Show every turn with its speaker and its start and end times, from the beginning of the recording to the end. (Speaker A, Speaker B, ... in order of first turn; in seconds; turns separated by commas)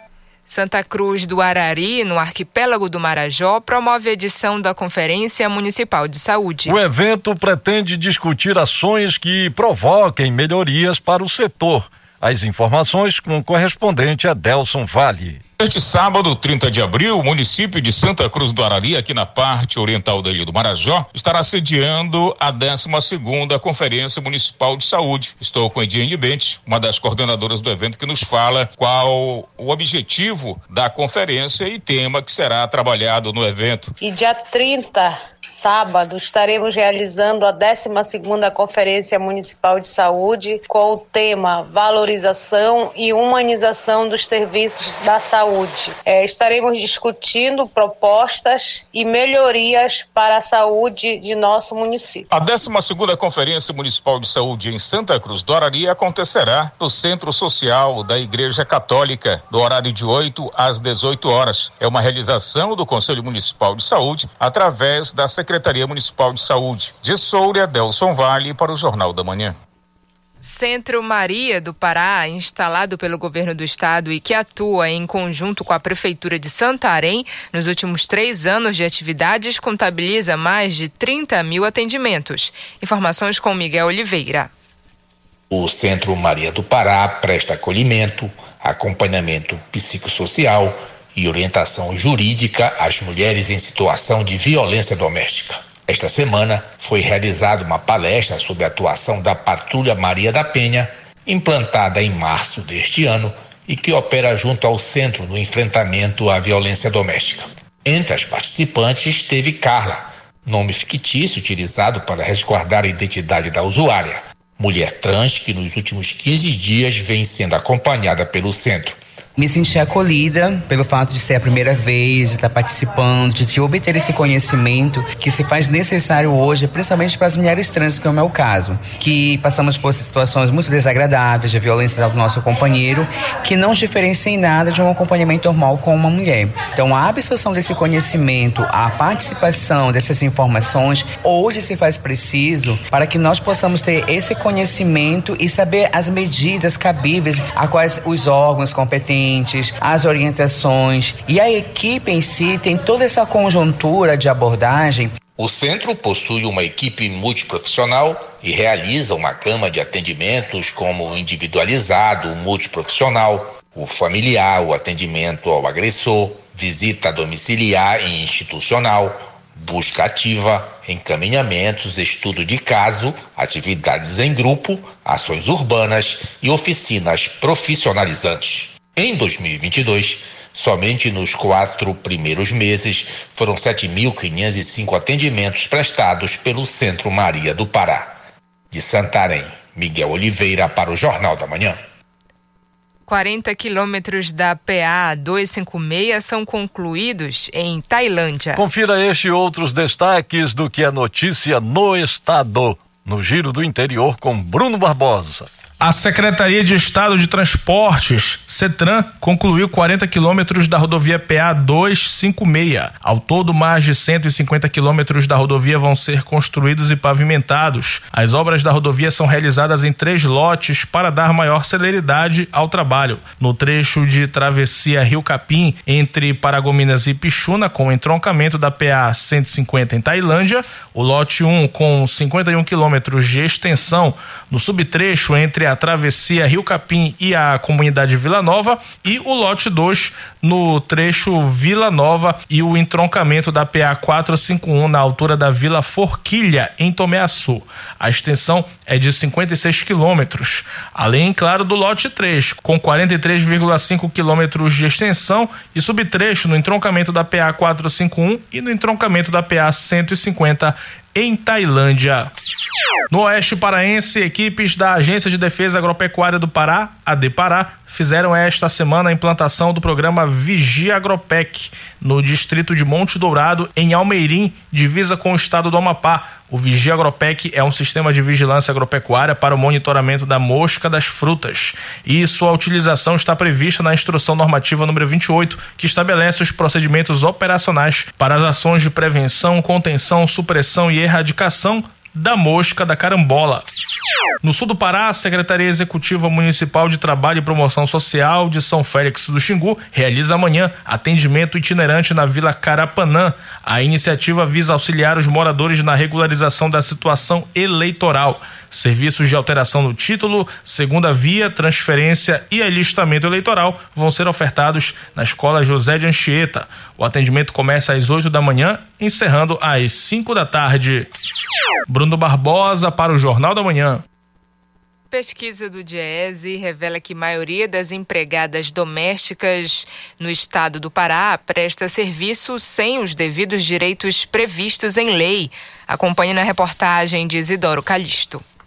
Speaker A: 0.5-6.8, Speaker B: 6.7-15.4, Speaker C: 15.6-33.9, Speaker D: 34.0-52.3, Speaker C: 52.3-69.5, Speaker A: 70.4-84.5, Speaker E: 85.5-119.0, Speaker F: 119.4-155.1, Speaker E: 155.4-188.1, Speaker E: 188.7-191.8, Speaker A: 193.1-198.6, Speaker B: 198.6-205.5, Speaker G: 205.8-262.3, Speaker G: 263.1-293.6, Speaker G: 294.4-321.1, Speaker G: 321.9-324.0, Speaker A: 325.1-338.4